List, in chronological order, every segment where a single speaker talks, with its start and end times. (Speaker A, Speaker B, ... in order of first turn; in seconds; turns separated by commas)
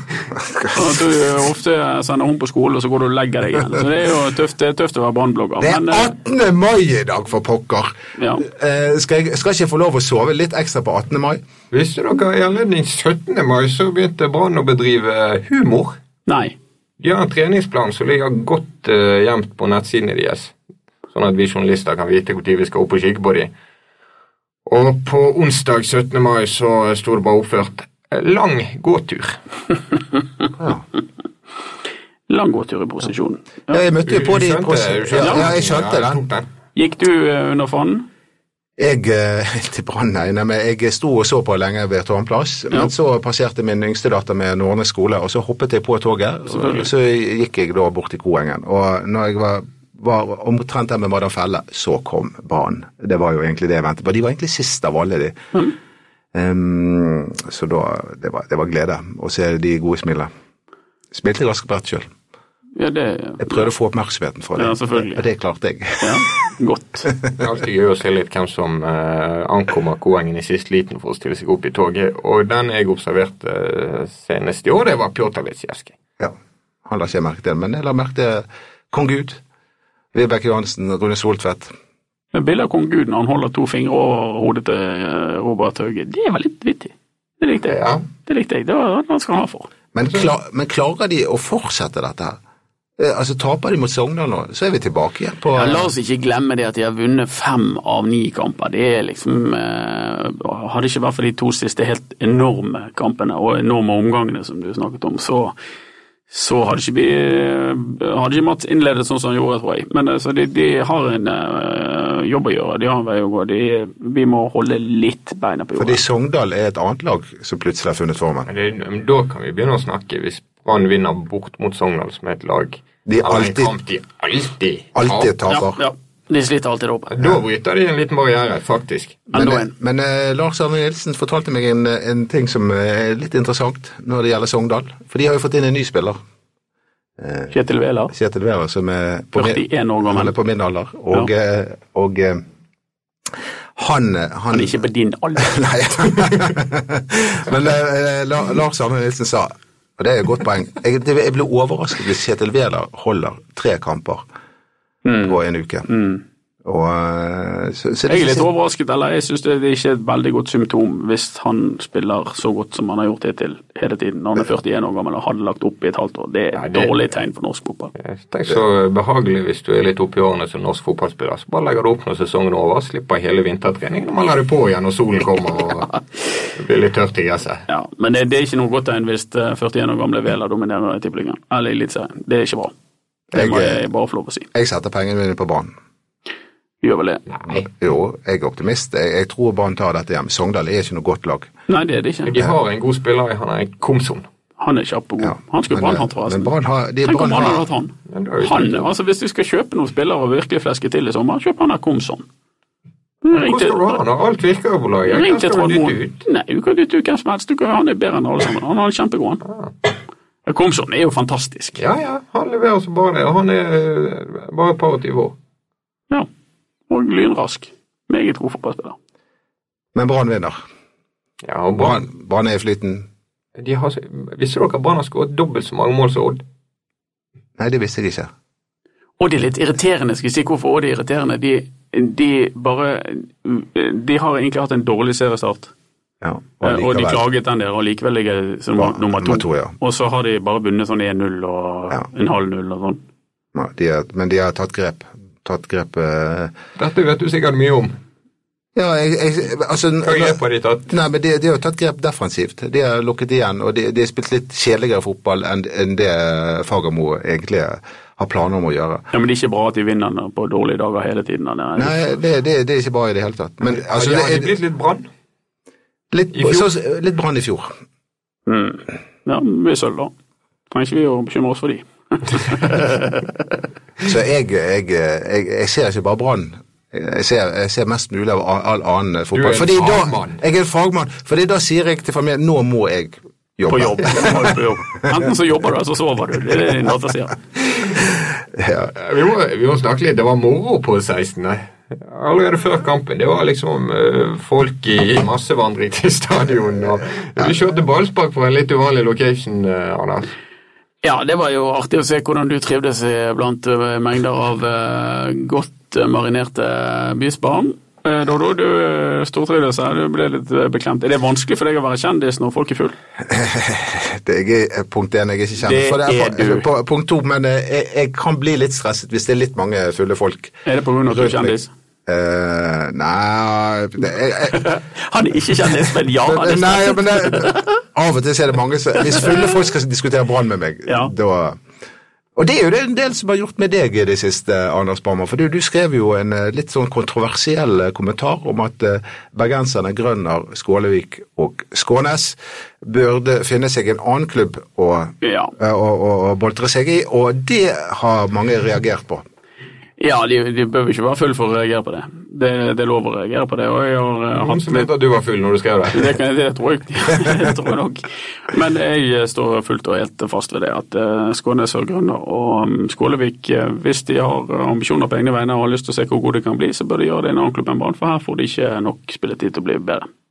Speaker A: 0.3-1.0, Speaker B: 0.7-6.1, Speaker A: 5.6-11.4, Speaker B: 8.2-8.4, Speaker C: 11.7-15.9, Speaker B: 16.3-16.6, Speaker C: 17.0-20.5, Speaker C: 21.1-23.5, Speaker C: 24.7-29.4, Speaker B: 32.3-33.8, Speaker A: 33.7-36.2, Speaker C: 34.0-36.5, Speaker B: 35.2-35.5, Speaker B: 36.8-38.1, Speaker A: 38.8-55.4, Speaker B: 46.5-46.9, Speaker A: 56.3-60.3, Speaker A: 61.1-62.1, Speaker B: 62.8-63.7, Speaker A: 63.4-66.2, Speaker B: 64.6-65.2, Speaker B: 66.0-67.1, Speaker C: 67.4-76.0, Speaker A: 76.9-79.4, Speaker A: 80.1-81.7, Speaker B: 82.3-89.7, Speaker C: 87.7-88.0, Speaker A: 90.0-92.4, Speaker A: 93.0-95.9, Speaker B: 95.5-105.5, Speaker B: 106.3-116.0, Speaker A: 115.8-118.5, Speaker C: 118.5-125.3, Speaker A: 123.1-123.7, Speaker A: 125.0-125.8, Speaker B: 125.5-127.2, Speaker C: 127.1-129.2, Speaker B: 129.3-129.7, Speaker A: 129.3-136.2, Speaker A: 137.2-137.5, Speaker B: 137.5-138.1, Speaker A: 138.1-142.4, Speaker B: 139.3-140.3, Speaker A: 143.8-144.8, Speaker B: 144.5-145.7, Speaker A: 145.4-154.2, Speaker B: 155.1-156.2, Speaker A: 155.2-155.9, Speaker A: 156.6-158.5, Speaker B: 158.1-167.9, Speaker C: 166.6-166.9, Speaker C: 168.0-175.9, Speaker C: 176.6-177.6, Speaker B: 177.7-182.7, Speaker A: 183.3-183.8, Speaker B: 183.3-184.5, Speaker A: 184.5-185.7, Speaker B: 186.8-187.2, Speaker C: 187.3-187.6, Speaker A: 187.5-191.5, Speaker B: 191.7-192.3, Speaker C: 192.3-194.2, Speaker B: 194.6-196.5, Speaker A: 195.2-197.7, Speaker B: 197.1-202.3, Speaker C: 198.1-198.9, Speaker B: 203.2-204.0, Speaker C: 203.3-206.2, Speaker B: 205.1-209.4, Speaker C: 209.5-209.7, Speaker B: 210.5-211.8, Speaker C: 211.8-215.4, Speaker B: 216.9-219.0, Speaker A: 219.9-220.6, Speaker C: 221.4-222.0, Speaker A: 221.8-223.1, Speaker C: 223.6-226.4, Speaker A: 227.6-228.3, Speaker B: 229.2-235.7, Speaker A: 236.2-237.2, Speaker B: 236.6-243.0, Speaker A: 238.8-239.8, Speaker A: 243.6-246.5, Speaker C: 246.8-247.9, Speaker A: 248.8-259.0, Speaker C: 250.0-250.9, Speaker B: 259.1-262.1, Speaker A: 261.8-264.5, Speaker C: 263.7-265.1, Speaker A: 266.1-267.7, Speaker C: 266.3-266.7, Speaker B: 268.5-270.1, Speaker B: 270.7-273.2, Speaker A: 274.1-284.6, Speaker C: 279.3-280.4, Speaker B: 283.7-287.4, Speaker A: 288.4-288.9, Speaker C: 288.9-300.3, Speaker B: 301.0-313.0, Speaker A: 313.2-324.6, Speaker B: 315.6-316.7, Speaker B: 320.6-321.7, Speaker B: 324.5-327.7, Speaker A: 325.7-331.6, Speaker B: 330.9-331.1, Speaker A: 332.4-349.2, Speaker B: 345.2-345.5, Speaker B: 350.0-354.9, Speaker C: 354.4-356.1, Speaker B: 355.9-370.1